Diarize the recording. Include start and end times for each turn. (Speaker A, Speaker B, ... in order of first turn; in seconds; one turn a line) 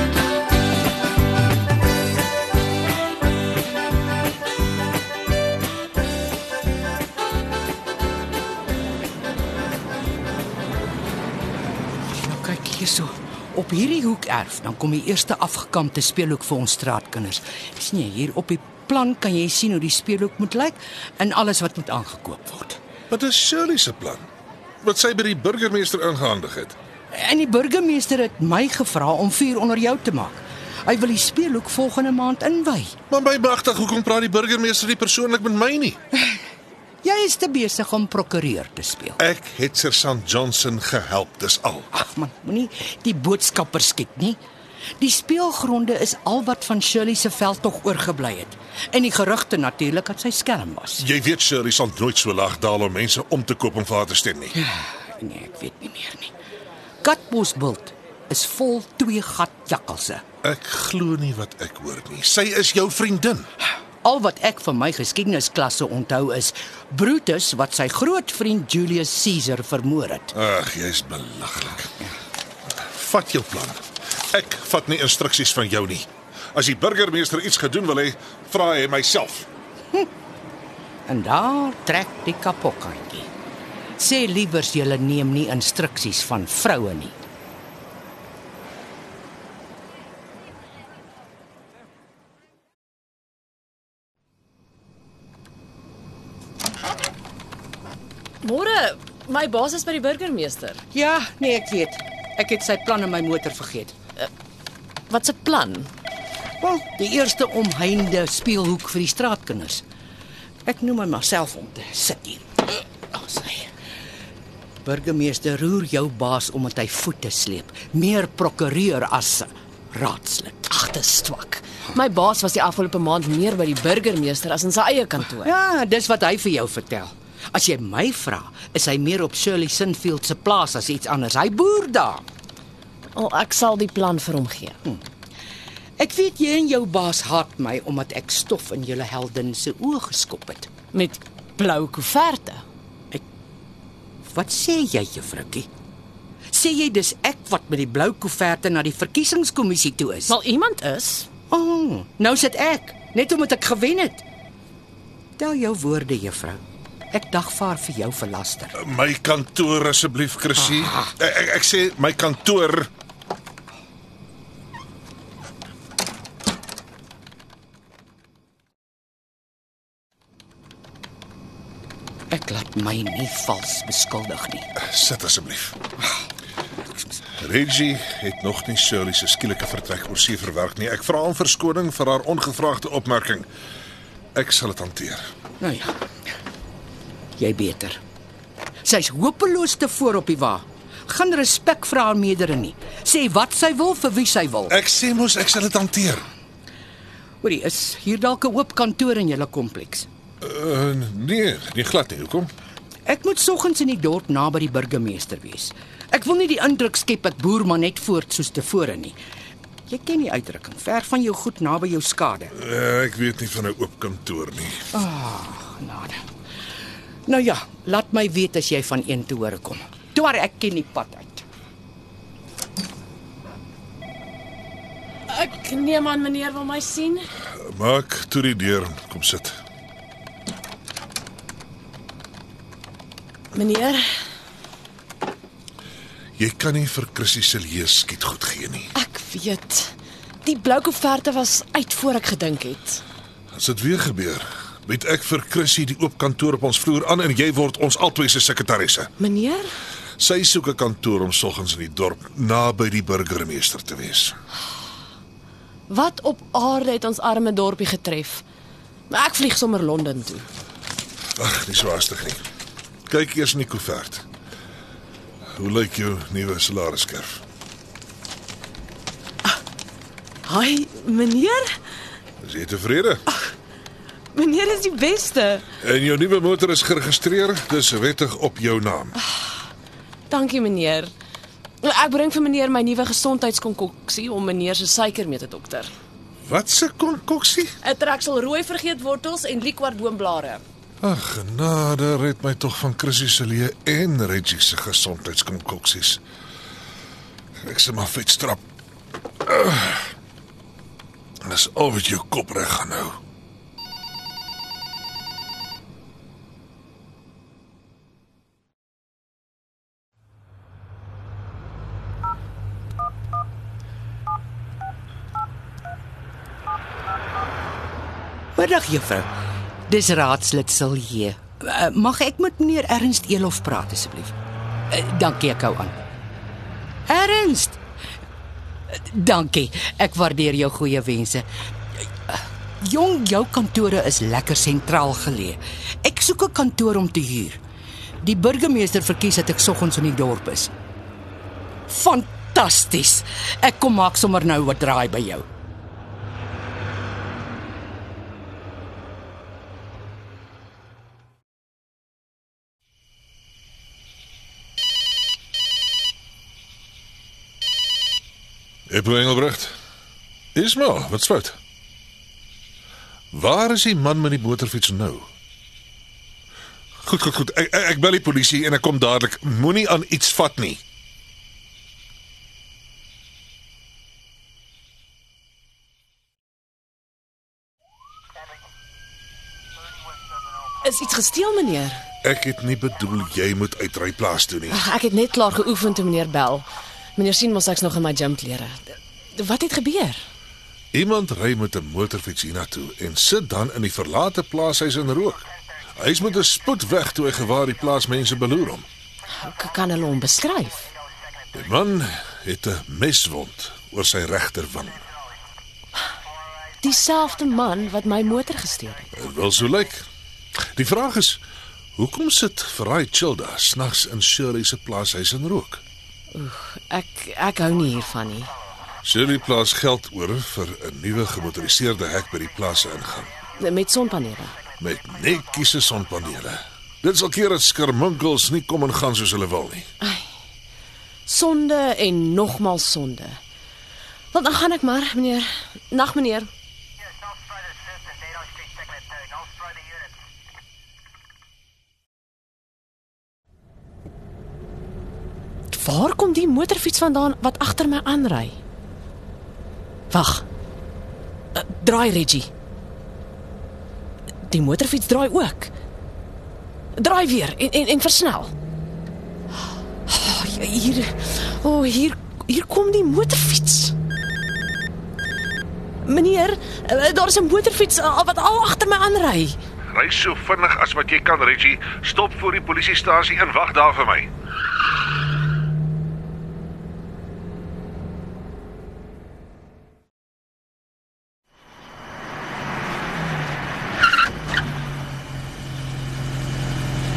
Speaker A: 12.1-22.8
Speaker B: 23.1-24.2
Speaker B: 24.8-26.8
Speaker A: 27.1-33.0
Speaker B: 33.1-36.0
Speaker A: 37.0-39.2
Speaker B: 39.2-41.9
Speaker A: 41.9-44.4
Speaker A: 45.0-51.0
Speaker B: 51.0-54.5
Speaker A: 54.6-56.3
Speaker A: 57.0-60.2
Speaker B: 60.4-63.5
Speaker A: 64.0-70.3
Speaker B: 70.3-71.9
Speaker B: 72.8-79.5
Speaker A: 81.1-83.3
Speaker A: 84.0-87.2
Speaker C: 98.4-100.8
Speaker A: 100.9-103.9
Speaker C: 105.1-105.9
Speaker A: 106.6-109.8
Speaker A: 110.7-113.7
Speaker A: 114.8-120.7
Speaker C: 120.7-125.5
Speaker A: 125.3-132.2
Speaker C: 133.1-134.8
Speaker A: 136.0-140.7
Speaker C: 140.9-142.6
Speaker A: 144.3-145.7
Speaker A: 146.5-150.3
Speaker C: 150.3-151.3
Speaker A: 151.5-154.2
Speaker A: 155.4-156.6
Speaker A: 157.1-158.7
Speaker B: 158.7-162.9
Speaker A: 172.3-174.7
Speaker B: 174.8-175.8
Speaker B: 177.3-183.5
Speaker B: 184.3-185.3
Speaker A: 185.6-186.0
Speaker A: 187.4-188.0
Speaker A: 188.8-194.7
Speaker B: 194.7-196.3
Speaker A: 197.4-200.1
Speaker B: 200.4-202.5
Speaker A: 203.1-209.2
Speaker A: 209.9-212.5
Speaker B: 212.5-214.8
Speaker A: 214.9-216.2
Speaker A: 217.3-221.4
Speaker C: 225.3-227.3
Speaker B: 227.6-229.6
Speaker C: 233.5-234.1
Speaker B: 236.4-238.9
Speaker C: 238.9-243.0
Speaker B: 243.5-249.1
Speaker C: 249.2-249.7
Speaker B: 250.2-254.3
Speaker C: 255.9-258.4
Speaker C: 259.1-260.5
Speaker B: 261.4-262.4
Speaker B: 263.1-264.2
Speaker B: 265.6-267.4
Speaker C: 270.4-271.8
Speaker B: 272.4-273.2
Speaker C: 274.3-275.6
Speaker B: 275.8-279.1
Speaker C: 279.2-279.5
Speaker C: 280.3-281.1
Speaker C: 281.8-285.9
Speaker B: 286.4-287.7
Speaker C: 287.8-290.6
Speaker B: 291.0-296.2
Speaker B: 297.6-298.6
Speaker B: 299.4-300.1
Speaker B: 301.4-303.2
Speaker A: 318.6-319.3
Speaker A: 319.9-324.3
Speaker A: 324.9-326.0
Speaker A: 327.1-327.8
Speaker A: 328.9-337.6
Speaker A: 338.2-340.7
Speaker A: 341.9-345.5
Speaker B: 358.9-359.7
Speaker B: 360.5-361.6
Speaker B: 363.3-365.3
Speaker B: 367.0-370.8
Speaker C: 380.8-382.0
Speaker B: 382.2-384.8
Speaker C: 384.7-386.6
Speaker C: 387.1-390.2
Speaker B: 390.9-395.4
Speaker B: 396.0-398.9
Speaker C: 399.3-400.9
Speaker B: 401.5-405.0
Speaker C: 406.8-409.1
Speaker B: 409.1-410.0
Speaker B: 410.6-411.4
Speaker B: 411.9-415.8
Speaker C: 416.3-418.5
Speaker B: 419.0-423.3
Speaker C: 423.6-424.5
Speaker B: 424.8-429.9
Speaker C: 430.0-430.3
Speaker C: 431.2-433.4
Speaker C: 434.3-436.5
Speaker C: 445.7-448.6
Speaker C: 450.1-450.4
Speaker C: 451.5-452.5
Speaker C: 454.4-455.7
Speaker C: 456.9-458.5
Speaker C: 460.1-463.9
Speaker C: 466.0-469.6
Speaker B: 469.9-474.3